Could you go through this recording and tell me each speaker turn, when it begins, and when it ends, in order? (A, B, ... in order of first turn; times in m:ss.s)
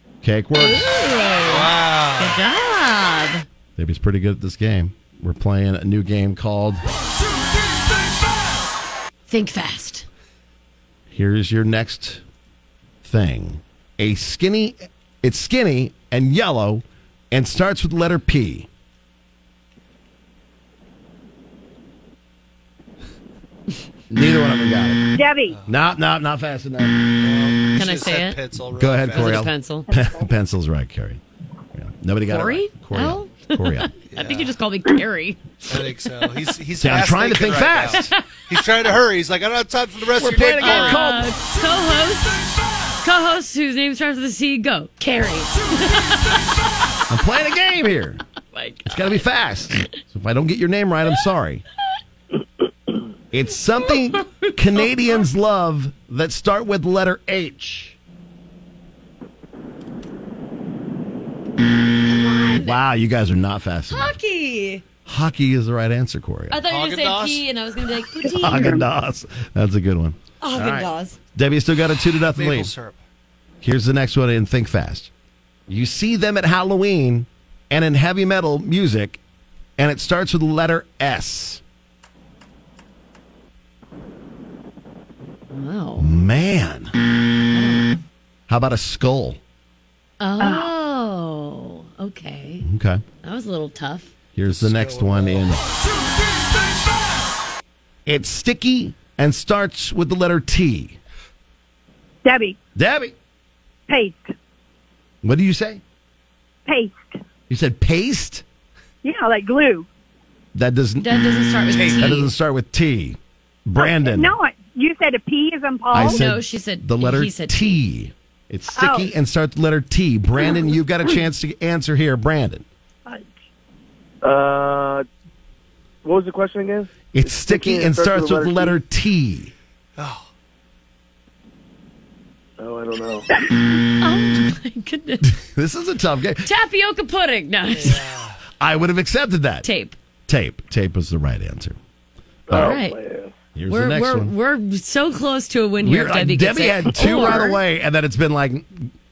0:00.2-0:01.0 A
0:00.6-0:03.4 B
0:01.4-0:02.4 C
0:03.8-0:06.8 A
0:09.3-0:10.1 B
0:11.1-0:12.2 A
0:13.0-0:18.7 A
0:24.1-0:25.0 A
0:25.1-0:25.6 D
0:25.6-0:27.1 A
0:27.2-0:29.5 C
0:27.8-0:28.4 B
0:28.7-0:31.2 A
0:29.1-0:29.9 B
0:31.7-0:33.9 A
0:32.3-0:35.5 B
0:34.1-0:34.5 C
0:35.7-0:41.0 C
0:36.8-0:38.1 A
0:40.2-0:41.3 A
0:40.6-0:42.4 B
0:43.0-0:46.7 B
0:47.1-0:48.2 A
0:48.5-0:49.3 B
0:48.8-0:51.6 A
0:53.3-0:58.0 A
1:02.1-1:02.8 B
1:02.5-1:04.2 A
1:03.9-1:04.8 B
1:05.0-1:06.6 A
1:06.5-1:08.8 B
1:06.7-1:07.4 C
1:08.2-1:08.8 D
1:08.4-1:12.7 A
1:10.4-1:11.2 B
1:12.3-1:13.0 C
1:13.6-1:15.1 A
1:15.7-1:19.2 A
1:19.8-1:21.6 A
1:25.5-1:26.1 B
1:26.0-1:26.9 A
1:27.5-1:27.9 B
1:28.5-1:29.4 A
1:30.2-1:32.6 B
1:30.4-1:30.7 D
1:32.6-1:33.0 A
1:33.2-1:34.1 B
1:34.4-1:35.6 A
1:34.5-1:35.6 C
1:38.0-1:41.0 A
1:42.2-1:42.6 D
1:42.8-1:43.1 A
1:43.9-1:44.3 D
1:45.2-1:45.8 A
1:46.6-1:47.2 D
1:47.5-1:48.4 A
1:49.0-1:49.9 D
1:50.5-1:54.3 A
1:51.0-1:52.3 B
1:51.7-1:52.1 C
1:53.8-1:56.2 D
1:55.9-2:02.6 A
1:56.0-1:57.8 B
1:58.7-1:59.1 D
2:04.2-2:05.0 E
2:06.0-2:08.8 E
2:07.1-2:09.5 A
2:10.0-2:10.3 C
2:12.6-2:13.2 E
2:14.0-2:15.3 B
2:15.2-2:16.5 A
2:16.4-2:18.0 B
2:17.8-2:18.4 C
2:18.6-2:19.6 A
2:19.6-2:20.0 B
2:20.3-2:21.8 A
2:22.5-2:23.3 E
2:22.5-2:23.0 B
2:23.5-2:24.3 A
2:23.7-2:27.6 B
2:25.8-2:28.9 A